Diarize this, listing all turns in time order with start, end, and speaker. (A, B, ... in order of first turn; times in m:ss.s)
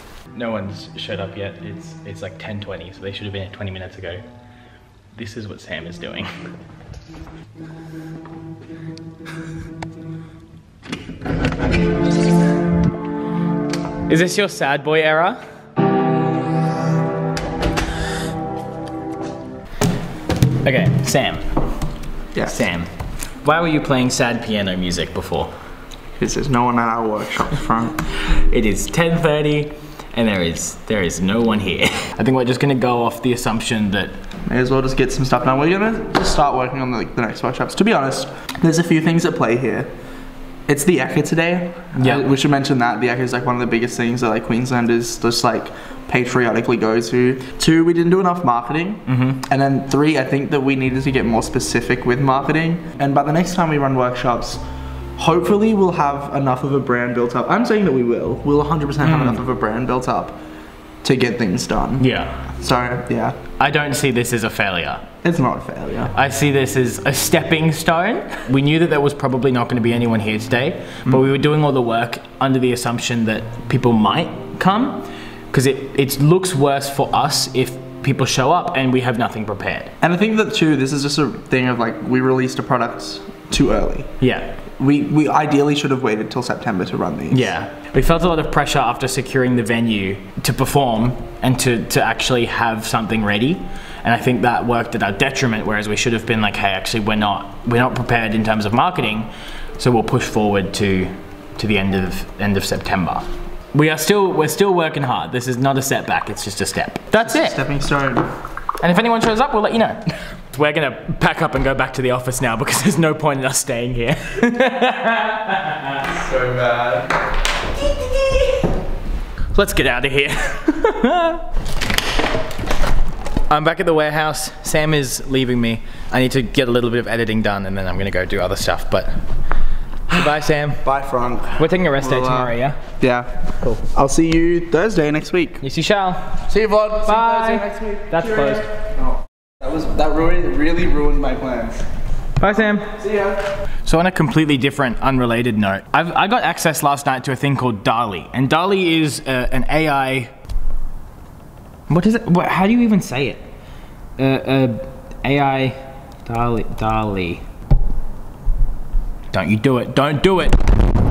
0:00.3-0:04.2 A
0:05.1-0:06.3 A
0:14.0-0:15.4 A
0:20.6-0:21.4 A
0:22.4-0:22.9 A
0:23.4-0:25.5 A
0:26.2-0:28.0 B
0:28.1-0:34.1 A
0:34.4-0:39.9 B
0:40.7-0:54.6 B
0:42.0-0:42.3 A
0:49.1-0:49.4 A
0:55.2-1:00.4 B
0:59.0-0:59.4 A
1:01.0-1:02.0 B
1:02.0-1:02.5 A
1:02.6-1:03.4 B
1:03.6-1:05.1 A
1:05.2-1:06.1 B
1:06.1-1:19.9 A
1:20.0-1:24.1 B
1:24.2-1:24.6 A
1:24.8-1:27.5 B
1:27.3-1:47.6 A
1:47.2-1:48.3 B
1:48.8-1:56.0 A
1:56.0-1:57.1 B
1:59.5-2:01.4 A
2:03.5-2:09.2 A
2:10.1-2:10.8 A
2:10.8-2:15.6 B
2:11.6-2:12.8 A
2:15.6-2:16.4 A
2:16.5-2:18.8 B
2:17.0-2:18.7 A
2:19.6-2:21.8 B
2:22.4-2:22.9 A
2:22.8-2:23.4 B
2:23.8-2:30.3 A
2:31.9-2:33.4 A
2:34.2-2:37.4 A
2:39.3-2:40.6 A